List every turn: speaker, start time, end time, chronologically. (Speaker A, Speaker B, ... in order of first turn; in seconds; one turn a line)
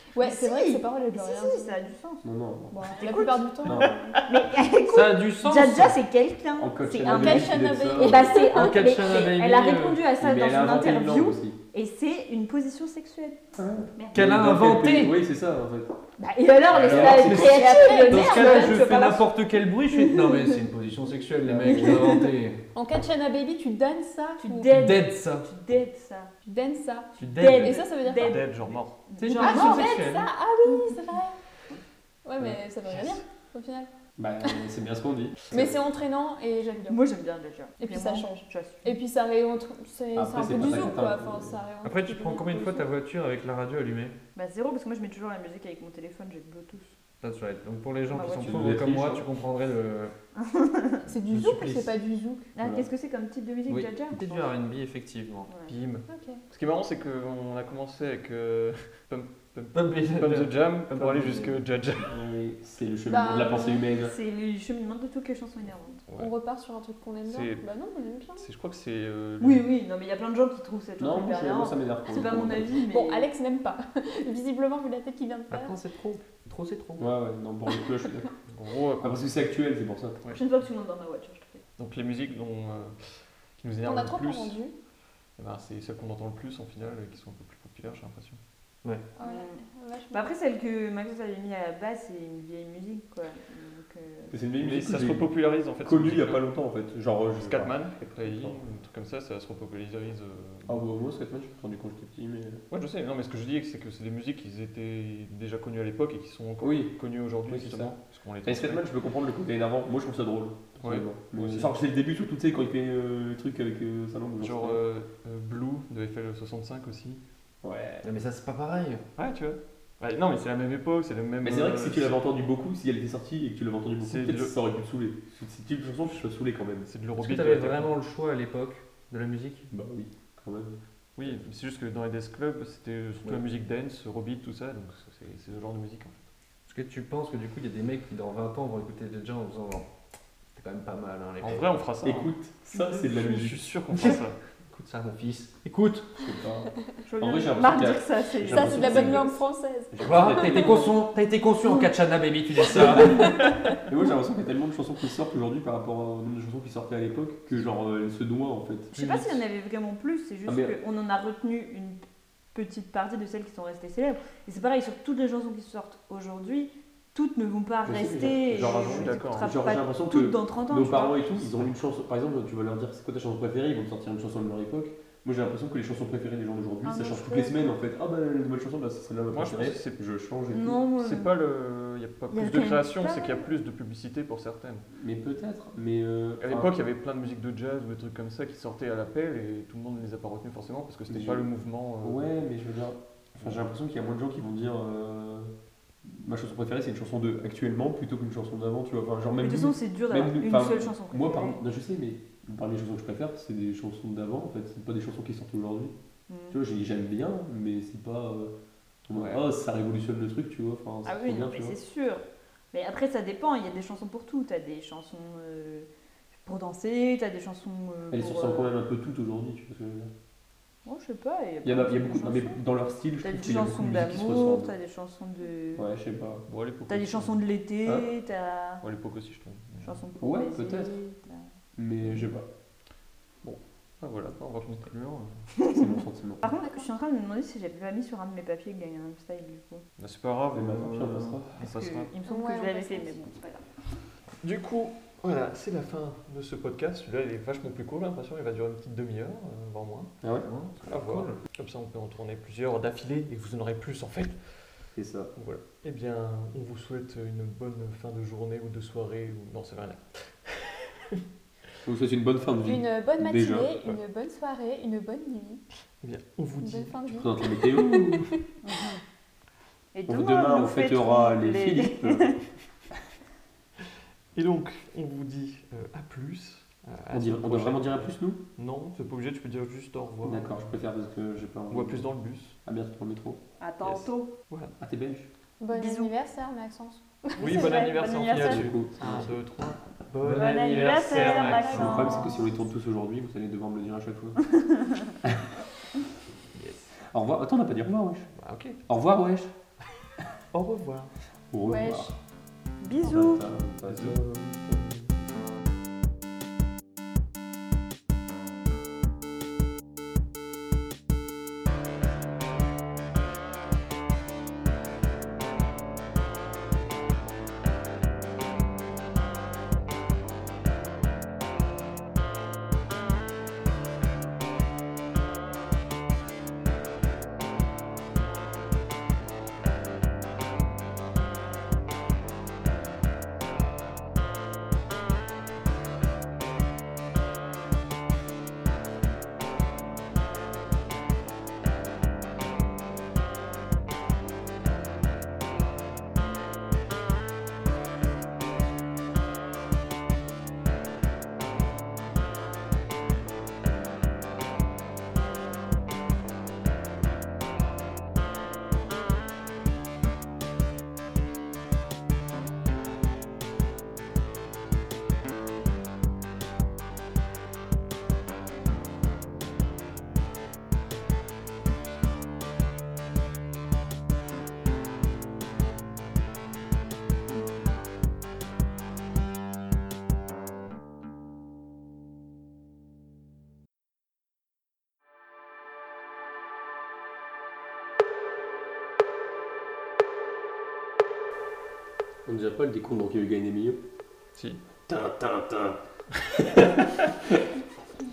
Speaker A: 0.1-1.9
Speaker B: 0.2-2.2
Speaker C: 2.2-2.8
Speaker A: 2.7-4.2
Speaker B: 2.9-3.5
Speaker C: 3.6-4.0
Speaker B: 4.2-14.2
Speaker D: 4.9-6.0
Speaker C: 6.6-8.3
Speaker A: 6.8-9.2
Speaker D: 8.3-10.1
Speaker C: 10.2-11.6
Speaker C: 13.6-16.0
Speaker D: 14.1-15.2
Speaker B: 16.2-19.3
Speaker D: 16.7-22.6
Speaker C: 16.7-18.0
Speaker A: 17.2-19.1
Speaker B: 19.9-20.6
Speaker C: 21.5-22.1
Speaker B: 21.6-22.3
Speaker A: 22.7-24.9
Speaker B: 24.4-26.3
Speaker D: 24.7-25.5
Speaker A: 26.4-28.4
Speaker D: 27.2-27.8
Speaker E: 27.3-29.0
Speaker B: 27.4-30.0
Speaker D: 29.2-30.3
Speaker A: 29.4-31.4
Speaker B: 30.6-31.0
Speaker A: 32.2-33.9
Speaker E: 32.9-33.2
Speaker C: 34.2-35.8
Speaker A: 35.5-37.0
Speaker B: 36.9-38.9
Speaker A: 37.8-42.9
Speaker C: 40.1-41.6
Speaker D: 41.8-44.2
Speaker B: 44.4-47.0
Speaker D: 47.2-50.1
Speaker B: 48.1-48.7
Speaker C: 48.4-49.3
Speaker B: 50.4-51.1
Speaker A: 51.1-52.5
Speaker D: 51.3-51.9
Speaker B: 52.5-54.5
Speaker C: 52.6-52.9
Speaker D: 53.7-55.5
Speaker B: 55.5-55.7
Speaker E: 55.7-62.2
Speaker A: 56.1-56.4
Speaker D: 59.7-61.6
Speaker C: 62.1-64.1
Speaker A: 63.1-63.9
Speaker B: 64.0-66.0
Speaker E: 66.1-66.3
Speaker A: 66.2-68.5
Speaker E: 67.2-67.6
Speaker E: 68.4-69.7
Speaker B: 69.4-73.3
Speaker C: 71.0-72.8
Speaker A: 72.8-75.7
Speaker D: 75.5-77.2
Speaker C: 77.0-78.3
Speaker E: 78.5-79.3
Speaker C: 79.0-80.2
Speaker B: 80.3-81.6
Speaker E: 81.8-84.6
Speaker A: 83.8-84.7
Speaker E: 85.4-88.4
Speaker A: 89.2-90.3
Speaker B: 89.2-94.3
Speaker C: 94.3-95.3
Speaker E: 94.6-96.5
Speaker C: 95.8-98.6
Speaker E: 97.4-100.8
Speaker C: 100.7-102.6
Speaker E: 102.7-108.9
Speaker C: 106.6-107.0
Speaker C: 107.5-107.9
Speaker C: 108.4-114.8
Speaker E: 110.8-111.7
Speaker E: 114.4-117.2
Speaker C: 117.6-118.0
Speaker D: 118.0-119.1
Speaker E: 119.2-122.2
Speaker C: 121.4-126.9
Speaker E: 124.0-124.5
Speaker E: 126.8-127.9
Speaker D: 127.2-129.7
Speaker C: 129.7-131.3
Speaker E: 131.2-136.2
Speaker D: 136.7-139.9
Speaker D: 140.6-141.7
Speaker E: 141.4-144.4
Speaker C: 142.0-143.8
Speaker D: 144.0-146.1
Speaker C: 146.2-146.7
Speaker B: 147.1-149.3
Speaker C: 147.2-149.4
Speaker A: 148.5-150.8
Speaker C: 149.9-150.9
Speaker D: 150.0-153.4
Speaker C: 152.7-158.9
Speaker D: 158.9-159.4
Speaker B: 158.9-162.0
Speaker C: 160.5-160.8
Speaker B: 162.5-171.3
Speaker C: 167.8-180.8
Speaker E: 168.5-169.6
Speaker B: 176.8-177.7
Speaker A: 176.9-177.5
Speaker E: 179.3-180.0
Speaker B: 180.5-181.3
Speaker E: 180.9-184.9
Speaker B: 182.3-183.5
Speaker C: 184.9-186.8
Speaker E: 186.4-192.4
Speaker C: 191.1-191.5
Speaker C: 192.0-195.5
Speaker C: 196.1-205.9
Speaker B: 199.4-201.6
Speaker B: 206.3-206.6
Speaker C: 206.5-208.5
Speaker C: 209.1-211.8
Speaker E: 209.1-209.4
Speaker B: 211.1-218.7
Speaker C: 218.1-220.1
Speaker B: 220.8-222.6
Speaker C: 221.6-224.7
Speaker B: 223.2-225.9
Speaker C: 225.8-226.4
Speaker E: 226.5-227.4
Speaker B: 226.9-228.8
Speaker E: 228.8-230.0
Speaker B: 229.8-231.5
Speaker C: 230.2-230.9
Speaker C: 231.8-232.5
Speaker E: 233.4-235.5
Speaker B: 235.6-235.9
Speaker C: 235.7-236.4
Speaker B: 236.4-239.8
Speaker A: 236.5-236.9
Speaker E: 240.0-242.1
Speaker C: 240.5-241.6
Speaker B: 241.6-243.7
Speaker A: 242.3-243.2
Speaker E: 244.4-250.1
Speaker C: 250.2-250.5
Speaker D: 250.4-251.4
Speaker E: 250.8-254.5
Speaker C: 254.9-255.3
Speaker E: 255.3-261.2
Speaker C: 261.9-263.8
Speaker A: 262.6-265.6
Speaker E: 266.0-267.2
Speaker A: 266.6-268.4
Speaker C: 267.1-268.3
Speaker B: 268.6-269.0
Speaker B: 269.9-272.4
Speaker C: 270.1-272.3
Speaker E: 274.4-280.7
Speaker C: 277.1-278.4
Speaker C: 280.2-282.1
Speaker E: 281.7-282.6
Speaker C: 282.6-283.4
Speaker B: 283.6-284.3
Speaker E: 283.8-284.8
Speaker C: 284.8-285.3
Speaker A: 285.6-287.9
Speaker B: 285.7-286.1
Speaker B: 287.4-288.7
Speaker E: 287.4-292.2
Speaker C: 288.3-289.4
Speaker D: 290.2-291.5
Speaker B: 290.2-292.4
Speaker A: 291.1-292.5
Speaker C: 291.7-294.6
Speaker C: 295.2-295.5
Speaker E: 296.6-296.9
Speaker C: 297.1-298.3
Speaker E: 298.3-298.8
Speaker C: 298.9-299.6
Speaker E: 300.5-301.1
Speaker C: 301.5-302.2
Speaker A: 301.7-302.1
Speaker B: 302.8-303.4
Speaker C: 303.0-305.1
Speaker E: 303.9-304.2
Speaker C: 392.3-393.8
Speaker E: 394.4-394.6
Speaker C: 394.9-395.8
Speaker E: 396.2-397.1